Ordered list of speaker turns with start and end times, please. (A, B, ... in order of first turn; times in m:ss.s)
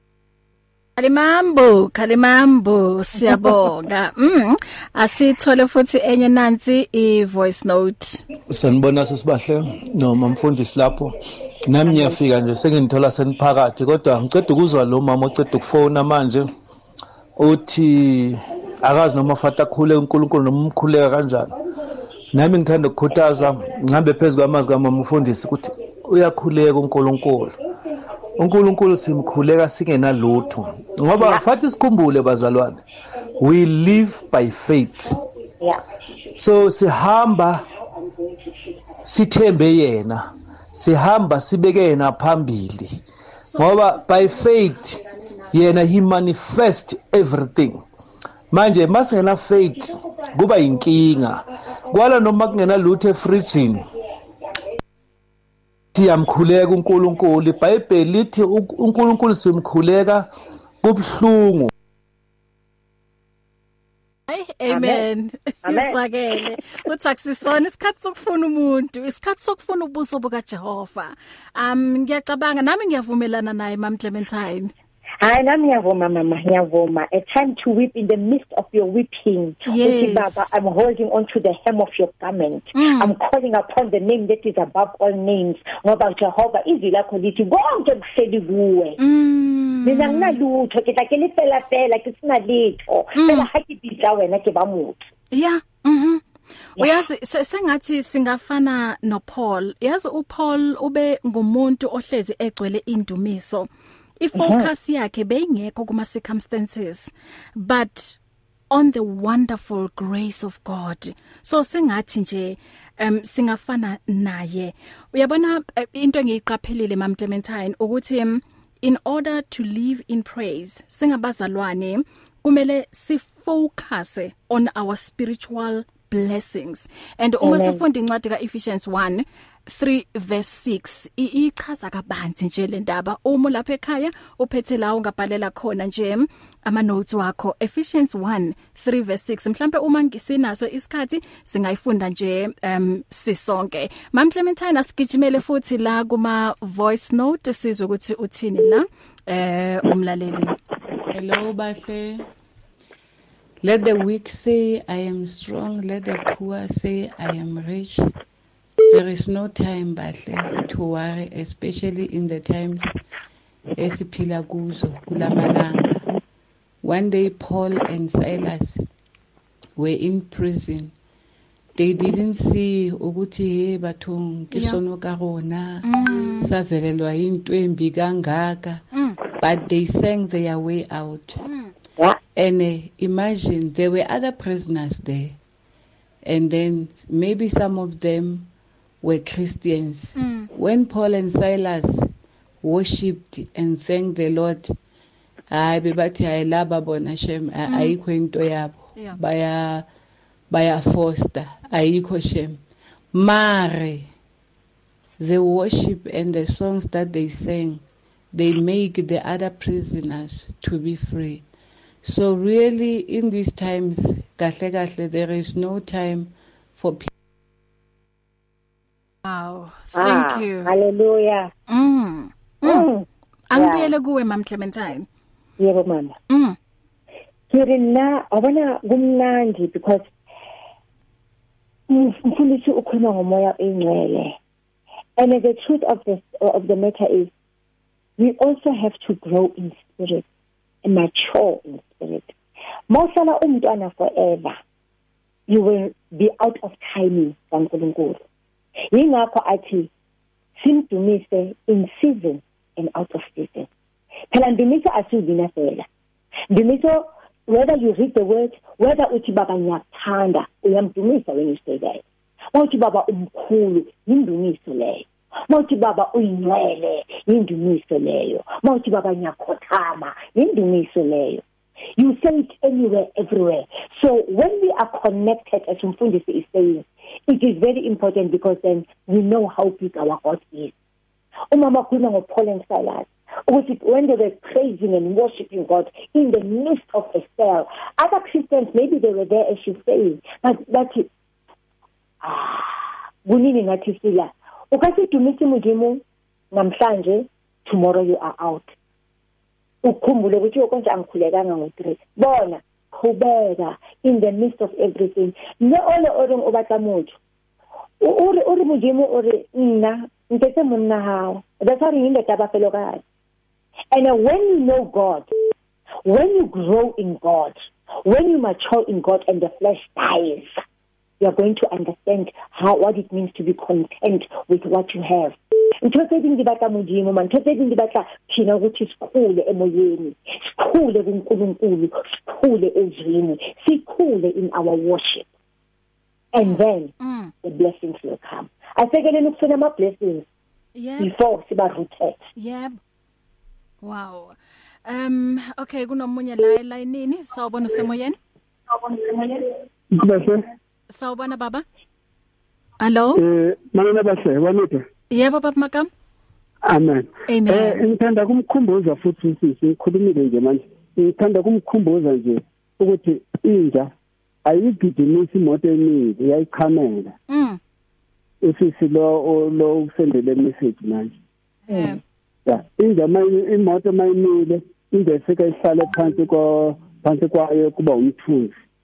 0:01.0-0:08.2 A
0:08.5-0:16.5 B
0:17.4-0:21.6 B
0:22.3-0:27.6 B
0:28.4-0:32.8 B
0:33.4-0:35.1 B
0:36.4-0:37.7 B
0:39.0-0:43.0 B
0:43.5-0:47.8 B
0:48.5-0:53.8 B
0:55.9-1:00.3 B
1:00.8-1:01.7 B
1:04.3-1:14.7 A
1:04.7-1:05.0 C
1:05.6-1:06.0 C
1:15.2-1:29.0 C
1:19.6-1:20.5 A
1:22.8-1:23.1 A
1:29.0-1:30.4 A
1:29.8-1:35.0 C
1:33.2-1:33.5 A
1:35.3-1:36.2 A
1:36.8-1:43.7 A
1:44.2-1:48.2 A
1:44.4-1:44.7 C
1:48.7-2:30.6 A
2:07.4-2:07.8 C
2:31.1-2:32.3 D
2:33.6-2:38.1 D
2:38.9-2:42.9 D
2:43.8-2:46.0 D
2:46.8-2:48.8 D
2:49.8-2:50.9 D
2:51.8-2:58.8 D
2:54.5-2:54.8 A
2:55.8-2:56.5 A
2:58.9-2:59.2 A
2:59.4-3:01.4 D
3:01.4-3:01.7 A
3:02.3-3:05.4 D
3:06.2-3:08.5 D
3:09.0-3:12.1 D
3:10.2-3:10.5 A
3:12.6-3:14.7 D
3:15.5-3:19.9 D
3:17.7-3:18.0 A
3:20.5-3:22.6 D
3:23.1-3:24.1 D
3:25.2-3:31.4 D
3:32.0-3:37.1 D
3:39.2-3:40.7 A
3:40.0-3:41.5 C
3:41.7-3:42.8 A
3:42.6-3:43.9 C
3:43.5-3:45.1 A
3:45.6-3:46.2 C
3:46.3-3:46.6 A
3:47.5-3:50.1 C
3:51.9-3:54.4 C
3:55.2-3:57.3 C
3:58.2-4:00.2 C
4:00.8-4:02.3 C
4:02.9-4:04.6 C
4:05.5-4:08.2 C
4:08.9-4:09.9 C
4:10.6-4:13.7 C
4:14.3-4:15.8 C
4:16.5-4:22.0 C
4:22.5-4:31.4 C
4:32.0-4:40.7 C
4:41.5-4:51.1 C
4:52.2-4:58.7 C
4:59.8-5:07.2 C
5:08.0-5:13.0 C
5:13.9-5:15.3 C
5:16.0-5:20.6 C
5:21.2-5:35.3 C
5:36.3-5:40.2 C
5:36.4-5:37.3 A
5:40.8-5:41.1 A
5:41.0-5:42.2 C
5:42.4-5:42.8 A
5:43.8-5:48.2 A
5:49.9-5:50.4 E
5:50.9-5:51.6 A
5:52.8-5:53.2 A
5:53.1-5:54.8 E
5:55.1-5:55.9 A
5:56.6-6:03.9 E
5:57.3-5:57.8 A
6:04.4-6:07.1 E
6:07.3-6:07.6 A
6:08.4-6:11.1 E
6:11.7-6:12.0 A
6:11.7-6:12.0 C
6:12.4-6:18.5 E